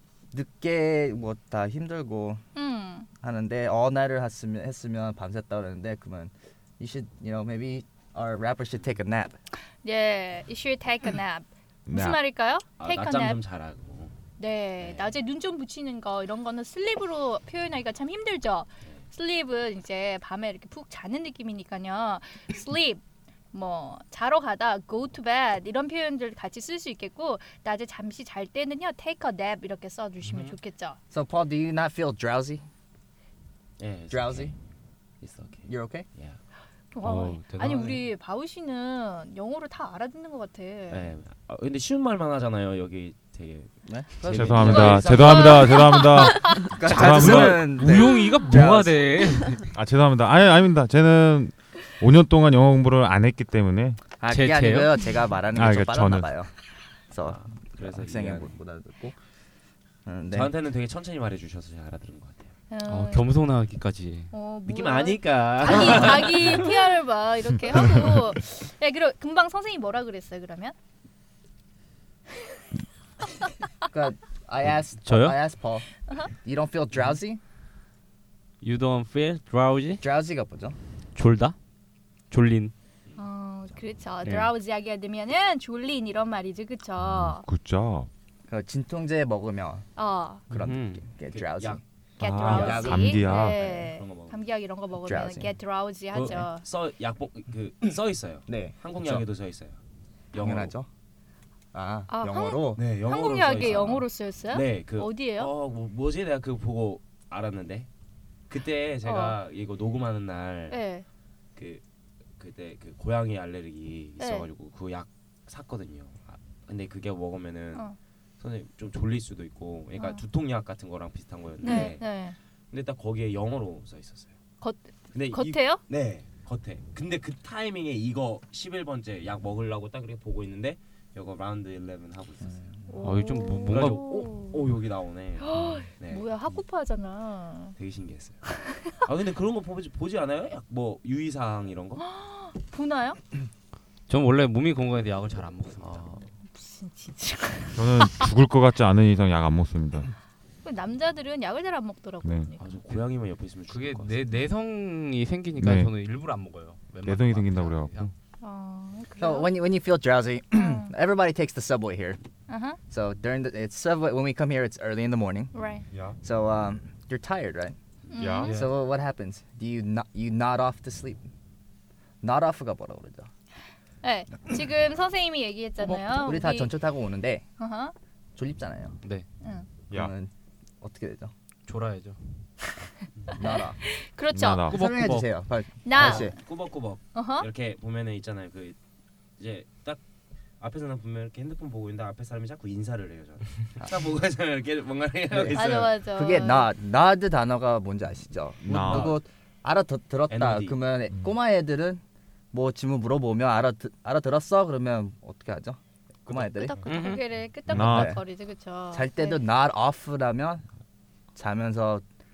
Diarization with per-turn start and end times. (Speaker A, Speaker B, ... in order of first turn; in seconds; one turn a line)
Speaker A: 0.3-2.4
Speaker B: 2.5-3.1
Speaker A: 3.2-9.3
Speaker B: 9.8-13.4
Speaker C: 11.9-12.2
Speaker D: 12.8-14.1
Speaker B: 14.4-31.0
Speaker D: 14.8-15.2
Speaker D: 30.2-30.6
Speaker A: 31.1-32.6
Speaker D: 33.8-34.6
Speaker A: 34.1-34.5
Speaker D: 35.2-36.4
Speaker A: 35.7-36.1
Speaker B: 36.9-41.1
Speaker E: 37.0-38.0
Speaker D: 40.9-43.7
Speaker A: 43.9-45.6
Speaker D: 44.2-45.5
Speaker C: 44.3-47.9
Speaker B: 44.7-46.6
Speaker A: 46.6-49.0
Speaker E: 46.8-49.7
Speaker C: 49.7-54.0
Speaker A: 54.2-56.5
Speaker E: 54.3-55.1
Speaker C: 55.5-56.3
Speaker A: 57.1-59.2
Speaker D: 57.2-58.5
Speaker A: 60.1-60.5
Speaker D: 60.3-62.5
Speaker B: 62.7-63.3
Speaker E: 62.9-64.3
Speaker B: 64.3-70.8
Speaker D: 64.7-66.8
Speaker A: 73.8-77.4
Speaker E: 75.0-75.4
Speaker E: 78.6-80.0
Speaker A: 80.0-80.8
Speaker E: 81.2-81.6
Speaker E: 82.3-82.7
Speaker B: 83.2-87.5
Speaker E: 84.2-84.5
Speaker C: 87.0-88.1
Speaker A: 88.5-89.8
Speaker B: 90.0-90.5
Speaker E: 90.5-91.0
Speaker A: 90.5-91.8
Speaker D: 91.3-91.8
Speaker C: 92.2-93.6
Speaker B: 92.2-96.7
Speaker D: 92.4-94.4
Speaker A: 92.5-93.1
Speaker A: 95.0-95.5
Speaker D: 96.1-99.8
Speaker A: 98.5-99.2
Speaker D: 100.3-100.7
Speaker A: 100.3-100.9
Speaker A: 101.7-102.8
Speaker B: 102.1-105.5
Speaker D: 102.8-107.9
Speaker D: 108.5-110.8
Speaker B: 109.0-109.4
Speaker B: 110.7-111.0
Speaker D: 111.6-111.8
Speaker D: 112.4-117.9
Speaker B: 114.2-114.5
Speaker D: 118.4-122.1
Speaker B: 120.0-120.2
Speaker B: 121.6-122.4
Speaker D: 122.7-124.3
Speaker B: 124.6-125.8
Speaker D: 125.1-132.6
Speaker A: 132.4-132.8
Speaker B: 132.9-134.6
Speaker E: 133.0-134.2
Speaker D: 133.7-136.3
Speaker B: 135.4-137.8
Speaker D: 137.8-142.0
Speaker B: 142.0-143.2
Speaker E: 144.1-146.2
Speaker D: 145.8-146.3
Speaker B: 146.5-148.3
Speaker C: 147.8-150.1
Speaker B: 150.6-152.7
Speaker C: 152.2-152.5
Speaker D: 152.6-154.2
Speaker E: 153.7-158.1
Speaker C: 155.6-156.0
Speaker C: 157.0-158.1
Speaker B: 158.4-159.5
Speaker A: 159.2-162.2
Speaker B: 160.6-160.9
Speaker B: 162.5-162.8
Speaker A: 162.9-165.5
Speaker B: 165.5-165.9
Speaker C: 165.9-166.2
Speaker A: 166.2-167.8
Speaker B: 168.1-168.6
Speaker C: 168.2-168.5
Speaker A: 168.4-171.2
Speaker E: 168.4-168.7
Speaker A: 172.2-173.3
Speaker B: 174.0-176.7
Speaker A: 176.0-177.5
Speaker B: 177.6-177.9
Speaker A: 178.4-179.0
Speaker B: 179.4-179.7
Speaker A: 179.9-180.3
Speaker A: 180.8-181.3
Speaker E: 181.7-182.2
Speaker A: 183.4-183.8
Speaker B: 183.5-184.7
Speaker C: 184.3-184.9
Speaker E: 184.7-185.3
Speaker A: 184.7-186.3
Speaker B: 185.8-186.4
Speaker D: 186.0-188.8
Speaker B: 187.1-187.5
Speaker D: 189.4-190.0
Speaker D: 190.6-195.9
Speaker A: 195.3-195.6
Speaker B: 195.5-196.7
Speaker A: 196.1-206.8
Speaker C: 198.6-199.2
Speaker D: 198.8-199.2
Speaker D: 200.3-200.8
Speaker D: 206.3-206.9
Speaker B: 206.6-209.4
Speaker E: 206.9-207.2
Speaker C: 207.7-208.2
Speaker A: 207.7-208.2
Speaker A: 208.9-210.6
Speaker A: 211.4-212.0